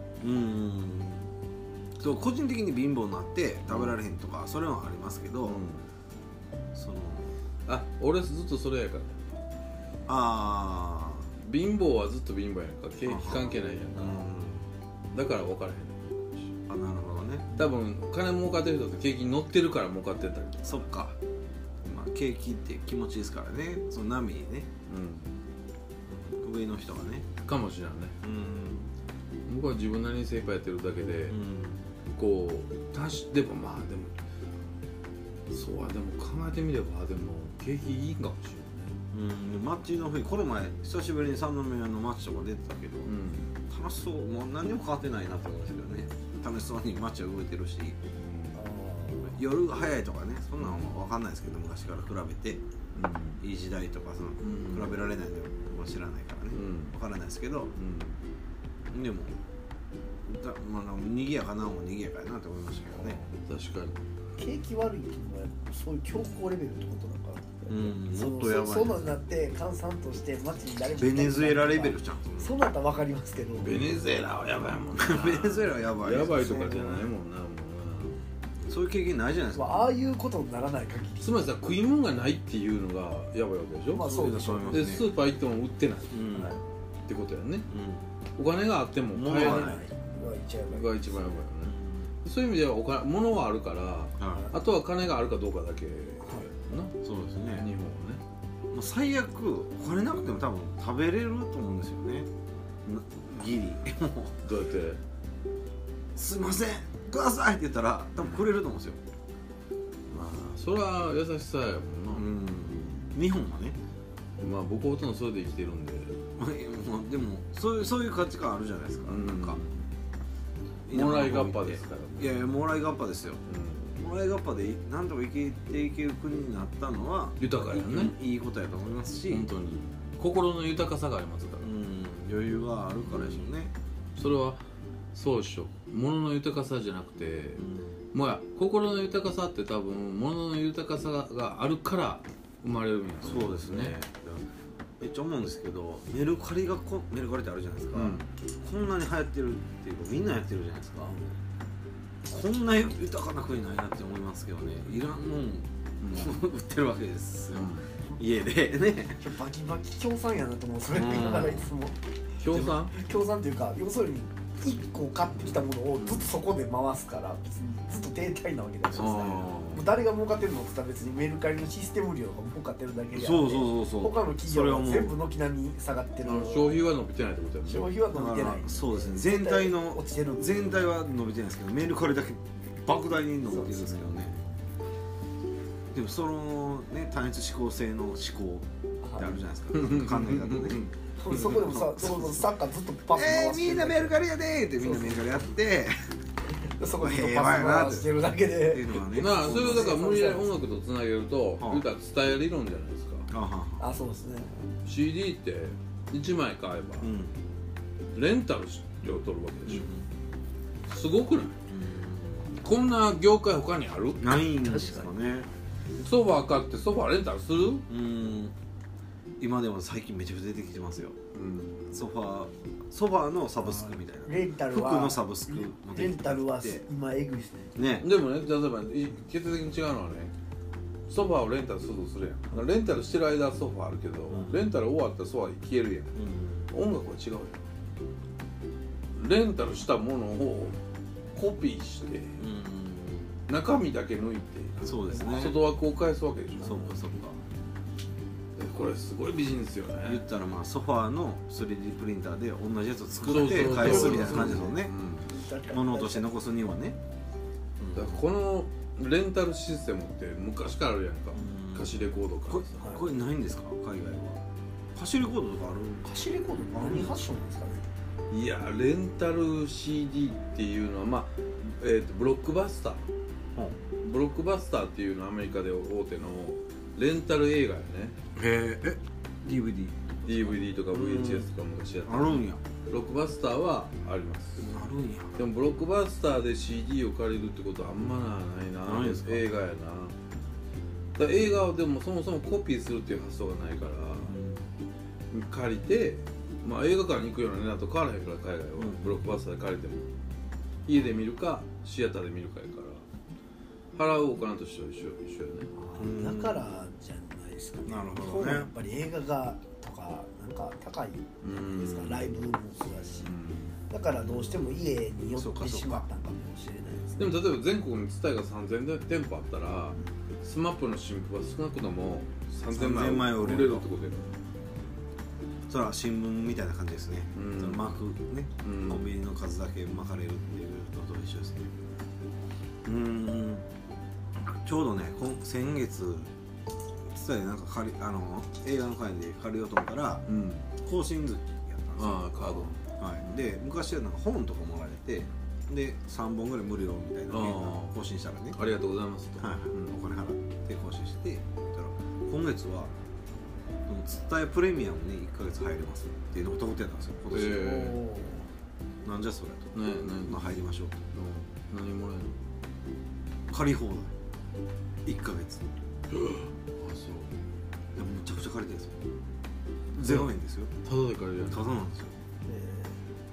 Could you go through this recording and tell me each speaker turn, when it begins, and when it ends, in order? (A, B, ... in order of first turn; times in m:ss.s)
0:00.2-0:01.3 A
0:02.0-0:05.6 A
0:03.7-0:03.9 B
0:05.4-0:05.9 B
0:06.7-0:07.3 A
0:07.6-0:09.4 B
0:10.1-0:11.3 A
0:11.4-0:14.3 B
0:13.0-0:14.7 A
0:15.1-0:16.5 B
0:16.7-0:17.5 A
0:17.5-0:20.9 B
0:20.6-0:21.2 A
0:21.8-0:24.7 A
0:24.9-0:25.3 B
0:26.1-0:27.3 A
0:27.4-0:28.2 B
0:28.2-0:28.9 A
0:29.4-0:31.4 B
0:31.3-0:31.9 A
0:32.2-0:34.1 B
0:35.5-0:39.0 B
0:39.1-0:43.1 A
0:43.0-0:43.5 B
0:43.7-0:48.0 A
0:48.1-0:48.6 B
0:48.5-0:49.4 C
0:49.2-0:52.6 A
0:50.6-0:50.9 B
0:52.9-0:53.4 B
0:53.4-0:57.7 A
0:54.4-0:55.0 B
0:56.5-0:56.9 B
0:57.8-0:58.2 B
0:58.9-0:59.4 A
1:00.2-1:03.2 A
1:02.9-1:04.0 B
1:04.4-1:13.8 C
1:07.7-1:09.1 A
1:11.0-1:12.6 A
1:13.6-1:18.2 B
1:14.9-1:17.0 A
1:18.6-1:19.9 A
1:19.5-1:21.4 C
1:21.2-1:27.7 B
1:23.9-1:24.9 C
1:24.0-1:25.1 A
1:26.1-1:26.6 A
1:27.7-1:28.1 A
1:28.4-1:29.8 B
1:29.1-1:29.8 A
1:29.3-1:31.4 C
1:30.7-1:38.2 B
1:31.6-1:32.1 A
1:34.2-1:34.5 A
1:36.2-1:36.5 C
1:37.0-1:37.7 A
1:38.7-1:42.3 A
1:42.8-1:44.3 A
1:44.4-1:45.0 B
1:46.1-1:49.0 A
1:50.1-1:52.3 B
1:52.1-1:53.8 A
1:54.4-1:56.2 B
1:56.4-1:59.6 A
1:59.0-1:59.9 B
2:00.9-2:03.4 A
2:00.9-2:02.4 B
2:03.5-2:04.0 B
2:04.0-2:09.5 A
2:07.4-2:08.1 B
2:09.3-2:11.7 B
2:11.6-2:13.7 A
2:13.0-2:13.5 B
2:14.2-2:24.0 B
2:17.6-2:18.0 A
2:23.2-2:24.5 A
2:25.0-2:31.2 A
2:27.9-2:28.3 B
2:32.2-2:39.2 A
2:36.0-2:36.4 B
2:37.5-2:37.9 B
2:39.2-2:42.0 C
2:40.9-2:41.7 A
2:42.4-2:42.9 B
2:42.5-2:42.8 A
2:42.9-2:56.8 C
2:46.0-2:46.2 B
2:48.9-2:49.6 A
2:48.9-2:49.9 B
2:53.1-2:55.2 A
2:56.2-2:57.9 B
2:57.6-3:00.7 C
2:58.1-3:04.4 A
3:03.5-3:03.8 C
3:04.0-3:04.5 B
3:05.9-3:12.5 A
3:09.0-3:09.4 C
3:09.7-3:10.9 B
3:11.2-3:14.2 C
3:13.1-3:16.1 A
3:14.8-3:15.5 C
3:16.5-3:20.5 C
3:17.0-3:20.0 A
3:19.1-3:23.3 B
3:21.6-3:21.8 A
3:23.3-3:23.8 A
3:23.8-3:24.5 C
3:24.8-3:27.1 B
3:27.0-3:27.4 A
3:28.1-3:29.9 B
3:29.6-3:30.1 A
3:30.9-3:31.6 B
3:31.7-3:32.6 A
3:32.6-3:34.3 B
3:34.2-3:35.5 A
3:36.0-3:37.8 B
3:37.9-3:38.5 A
3:39.4-3:41.2 A
3:41.3-3:42.0 B
3:41.9-3:46.8 A
3:43.6-3:47.7 C
3:47.7-3:48.1 A
3:48.0-3:50.3 B
3:51.1-3:56.1 B
3:54.3-3:54.6 A
3:56.1-3:56.7 A
3:56.7-3:57.6 B
3:59.1-4:00.8 B
4:01.3-4:02.4 B
4:02.4-4:03.4 A
4:03.5-4:06.9 B
4:04.8-4:05.6 A
4:05.1-4:05.5 C
4:06.6-4:07.4 A
4:08.6-4:10.2 B
4:10.0-4:14.9 A
4:13.2-4:15.3 B
4:13.7-4:14.6 C
4:15.3-4:16.3 C
4:15.7-4:17.0 A
4:17.8-4:18.2 A
4:17.9-4:22.8 B
4:21.3-4:24.4 A
4:24.9-4:26.1 A
4:26.0-4:27.9 C
4:28.3-4:33.0 B
4:33.5-4:33.8 A
4:34.0-4:38.2 B
4:38.3-4:41.5 A
4:40.2-4:44.7 B
4:42.0-4:42.6 A
4:44.6-4:45.4 A
4:45.4-4:50.2 B
4:48.8-4:49.4 A
4:51.2-4:54.4 B
4:54.2-4:54.7 A
4:55.3-5:00.1 B
4:58.8-4:59.3 A
5:00.8-5:03.0 B
5:03.9-5:05.7 B
5:05.7-5:13.3 C
5:06.0-5:06.6 A
5:07.8-5:08.7 A
5:11.4-5:12.3 B
5:13.2-5:13.8 B
5:13.9-5:17.4 C
5:14.2-5:14.6 A
5:15.3-5:16.1 A
5:17.2-5:24.3 B
5:22.7-5:23.9 A
5:25.7-5:31.7 A
5:27.3-5:28.0 B
5:28.6-5:29.1 B
5:32.8-5:33.7 A
5:34.4-5:36.3 A
5:37.1-5:40.2 A
5:40.3-5:40.7 B
5:40.8-5:48.6 A
5:42.0-5:42.8 B
5:47.3-5:47.9 B
5:48.5-5:50.0 B
5:49.4-5:52.9 A
5:53.9-5:58.0 A
5:57.3-5:58.0 B
5:57.8-5:58.4 C
5:59.0-6:01.0 A
5:59.7-6:00.5 B
6:01.1-6:02.4 B
6:03.5-6:04.1 A
6:05.0-6:05.7 A
6:06.1-6:07.4 B
6:07.9-6:09.0 A
6:10.0-6:10.3 B
6:10.0-6:10.7 A
6:10.8-6:11.6 B
6:11.5-6:12.2 A
6:12.5-6:13.0 C